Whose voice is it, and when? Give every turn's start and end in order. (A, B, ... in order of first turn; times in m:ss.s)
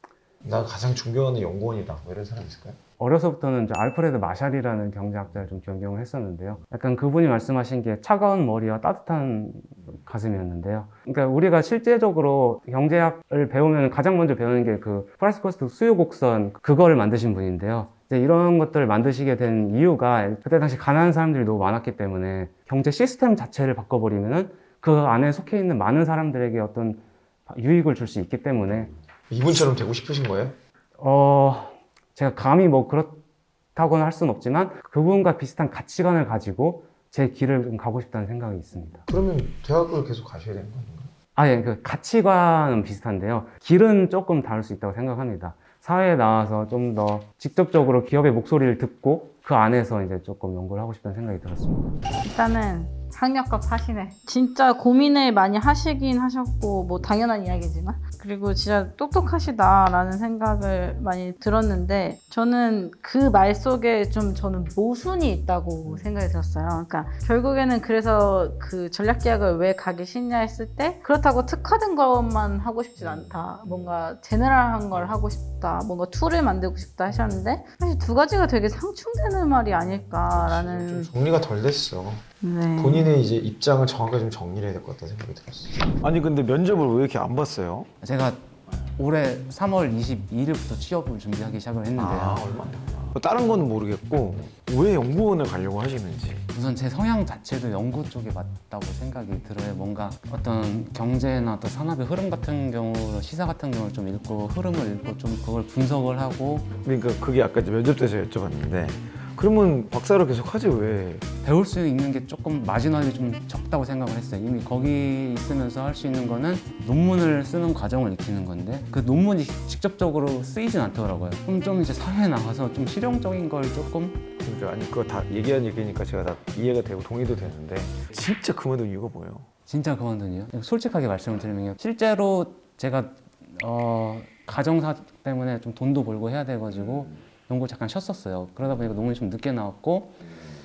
0:00.4-0:02.8 A
0:03.0-0:28.9 B
0:29.3-0:30.6 A
0:31.0-0:33.2 B
0:33.8-0:39.0 B
0:39.1-0:41.1 A
0:41.4-0:52.0 B
0:52.2-1:21.1 C
1:05.9-1:06.2 A
1:13.0-1:14.1 A
1:17.1-1:17.4 A
1:19.7-1:22.2 A
1:22.4-1:23.1 C
1:22.8-1:27.9 A
1:28.0-1:28.4 B
1:29.0-1:32.4 B
1:32.0-1:36.5 A
1:36.5-1:46.7 B
1:46.8-1:51.3 A
1:51.4-2:04.2 B
2:04.4-2:09.5 A
2:09.7-2:20.2 B